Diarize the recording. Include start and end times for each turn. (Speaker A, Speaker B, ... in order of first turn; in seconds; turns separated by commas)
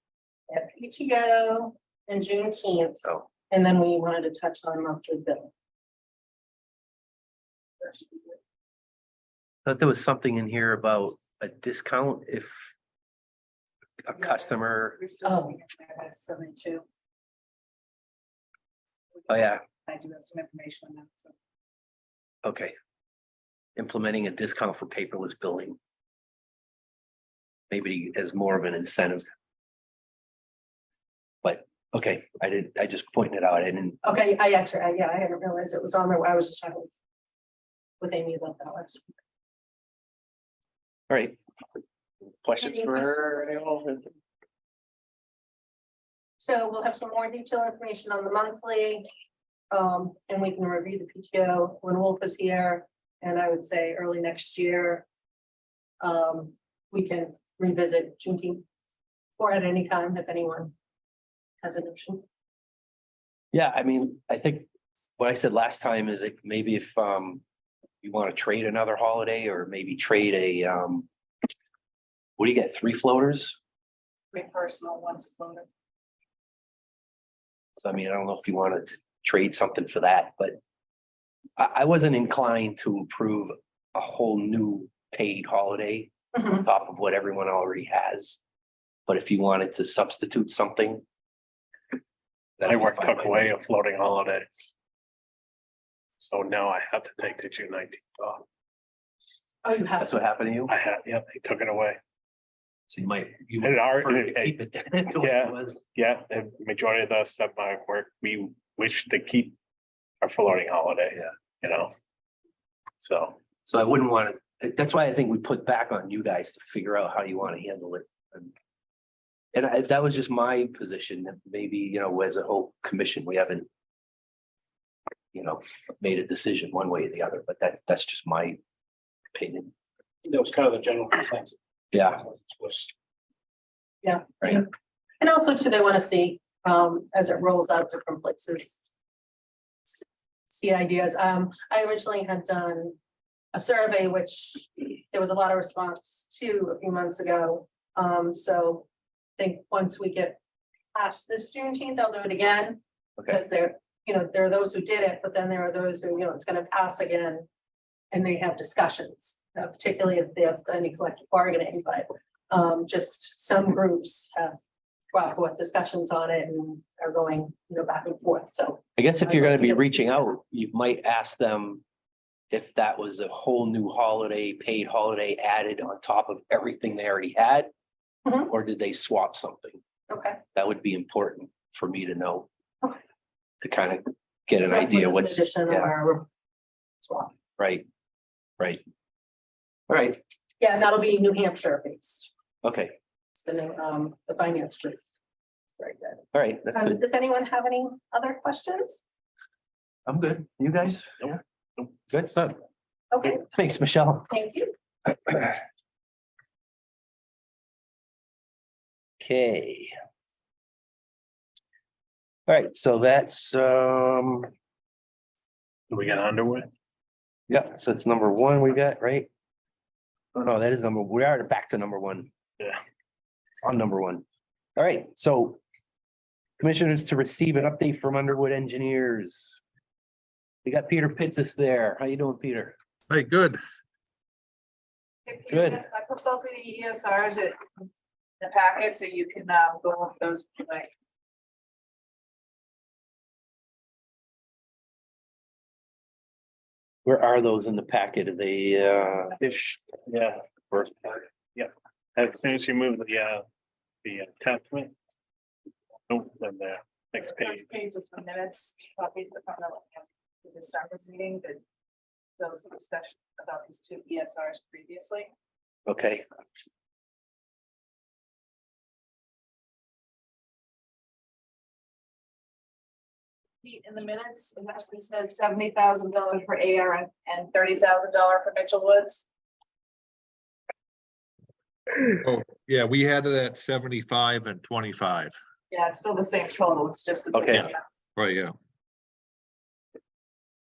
Speaker A: 0.5-5.5, Speaker A: 7.8-8.4, Speaker B: 9.7-12.7, Speaker B: 14.0-15.0, Speaker C: 14.2-16.8, Speaker A: 15.2-15.6, Speaker B: 19.3-19.6, Speaker C: 19.4-21.3, Speaker B: 22.4-22.8, Speaker B: 23.8-25.8, Speaker B: 27.7-29.2, Speaker B: 31.4-34.0, Speaker A: 34.0-36.9, Speaker A: 38.0-39.0, Speaker B: 41.1-41.4, Speaker B: 42.4-44.1, Speaker A: 42.6-43.8, Speaker A: 46.4-49.1, Speaker A: 49.7-55.0, Speaker A: 56.0-58.6, Speaker A: 59.4-60.7, Speaker A: 61.6-62.2, Speaker B: 63.5-67.4, Speaker B: 68.0-71.1, Speaker B: 72.4-73.6, Speaker C: 74.3-75.7, Speaker B: 77.8-80.6, Speaker B: 81.6-88.4, Speaker B: 89.1-91.0, Speaker B: 92.6-93.5, Speaker D: 92.7-94.5, Speaker D: 96.2-98.4, Speaker A: 99.6-100.1, Speaker B: 100.0-100.7, Speaker D: 100.7-102.0, Speaker B: 102.9-105.8, Speaker D: 103.6-104.5, Speaker D: 105.2-109.5, Speaker D: 110.2-111.9, Speaker D: 113.0-113.4, Speaker B: 113.7-118.5, Speaker B: 119.5-123.7, Speaker B: 125.3-128.6, Speaker B: 129.3-129.7, Speaker E: 130.2-131.6, Speaker B: 131.9-132.2, Speaker E: 132.4-132.9, Speaker A: 134.0-134.7, Speaker A: 135.2-138.8, Speaker A: 139.9-143.0, Speaker A: 143.5-148.9, Speaker A: 149.4-150.4, Speaker A: 150.9-157.5, Speaker A: 158.1-164.6, Speaker A: 165.1-170.2, Speaker B: 169.0-171.8, Speaker B: 172.5-177.7, Speaker B: 178.5-179.8, Speaker A: 180.1-180.4, Speaker B: 180.5-182.5, Speaker B: 183.6-185.9, Speaker A: 184.7-186.3, Speaker A: 187.0-187.3, Speaker B: 187.6-187.8, Speaker B: 189.9-190.2, Speaker A: 190.6-192.3, Speaker B: 192.6-192.9, Speaker A: 193.4-195.1, Speaker A: 195.8-199.0, Speaker B: 196.3-197.0, Speaker B: 200.1-201.4, Speaker B: 202.1-202.6, Speaker A: 203.1-203.4, Speaker B: 203.3-204.3, Speaker A: 204.3-204.7, Speaker B: 205.3-205.5, Speaker B: 209.2-209.9, Speaker B: 212.5-214.5, Speaker D: 215.9-216.7, Speaker B: 217.5-219.3, Speaker B: 220.3-222.3, Speaker B: 223.6-224.2, Speaker B: 224.8-225.6, Speaker B: 226.6-229.6, Speaker B: 230.7-232.8, Speaker F: 233.1-233.6, Speaker C: 235.3-237.6, Speaker B: 235.5-235.8, Speaker C: 238.4-240.9, Speaker B: 247.1-250.0, Speaker D: 250.1-250.4, Speaker B: 250.7-251.3, Speaker D: 251.6-253.4, Speaker D: 254.0-254.9, Speaker D: 256.1-257.6, Speaker C: 257.3-261.6, Speaker C: 262.4-265.3, Speaker B: 265.9-266.2, Speaker C: 273.6-279.2, Speaker F: 282.2-285.4, Speaker C: 285.7-287.8, Speaker B: 287.3-287.7, Speaker F: 288.2-288.6